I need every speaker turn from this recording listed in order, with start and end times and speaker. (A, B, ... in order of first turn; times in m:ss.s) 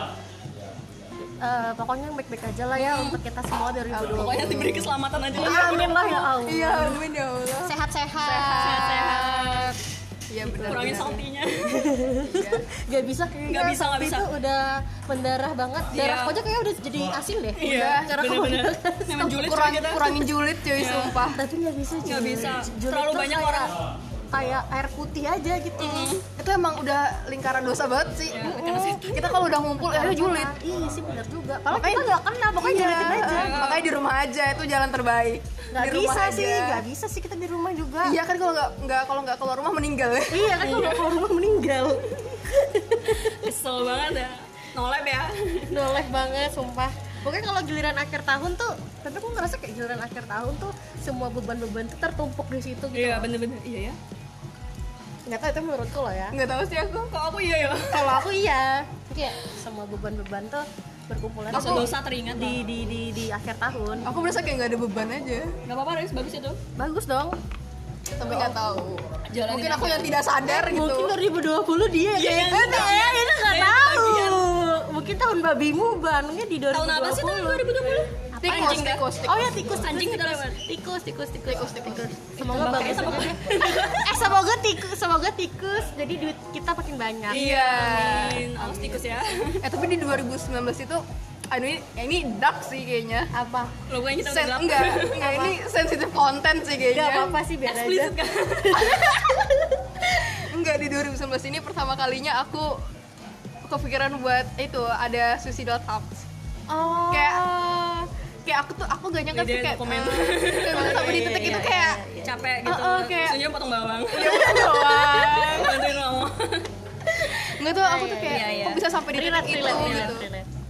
0:01.4-0:04.7 A
0:02.8-0:03.2 B
0:03.9-0:09.4 C
0:04.1-0:06.1 B
0:05.3-0:07.0 A
0:07.6-0:09.8 A
0:08.6-0:09.7 B
0:10.3-0:11.2 C
0:10.4-0:19.5 A
0:10.5-0:11.9 B
0:12.2-0:12.6 C
0:13.5-0:14.3 B
0:15.9-0:16.4 B
0:17.6-0:21.2 B
0:17.6-0:18.1 C
0:19.4-0:21.4 C
0:21.3-0:23.7 A
0:22.0-0:23.7 B
0:24.3-0:26.2 A
0:25.8-0:26.2 B
0:26.3-0:30.6 C
0:28.3-0:29.0 B
0:28.4-0:33.7 A
0:31.7-0:36.8 C
0:33.2-0:33.9 B
0:35.7-0:38.2 A
0:38.0-0:40.9 C
0:40.3-0:43.4 A
0:43.1-0:45.8 B
0:45.7-0:53.3 A
0:52.9-0:54.0 B
0:55.3-0:56.4 A
0:56.3-0:57.1 C
0:57.1-0:58.2 B
0:57.9-1:04.2 A
1:01.5-1:02.6 B
1:01.5-1:01.9 C
1:04.0-1:05.5 C
1:05.7-1:06.6 B
1:06.8-1:07.4 A
1:08.1-1:11.2 C
1:08.2-1:08.6 A
1:09.3-1:10.2 B
1:10.4-1:17.7 A
1:12.1-1:14.5 B
1:16.7-1:19.1 B
1:18.3-1:23.4 A
1:18.4-1:19.5 C
1:19.6-1:20.6 B
1:21.5-1:23.2 C
1:22.5-1:24.4 B
1:24.0-1:29.0 A
1:27.3-1:28.6 C
1:27.3-1:29.6 B
1:29.6-1:33.3 C
1:33.3-1:33.8 A
1:33.9-1:35.2 B
1:34.2-1:37.4 C
1:35.2-1:35.6 A
1:36.9-1:39.8 A
1:37.7-1:39.2 B
1:40.1-1:42.8 C
1:43.7-1:46.3 C
1:46.7-1:48.0 A
1:47.1-1:47.6 C
1:48.4-1:52.0 C
1:49.3-1:51.4 B
1:50.7-1:52.4 A
1:52.2-1:56.7 B
1:52.6-1:53.4 C
1:54.1-1:56.0 C
1:57.2-2:00.3 C
1:57.7-2:00.5 A
1:58.3-1:58.8 B
1:59.6-2:00.2 B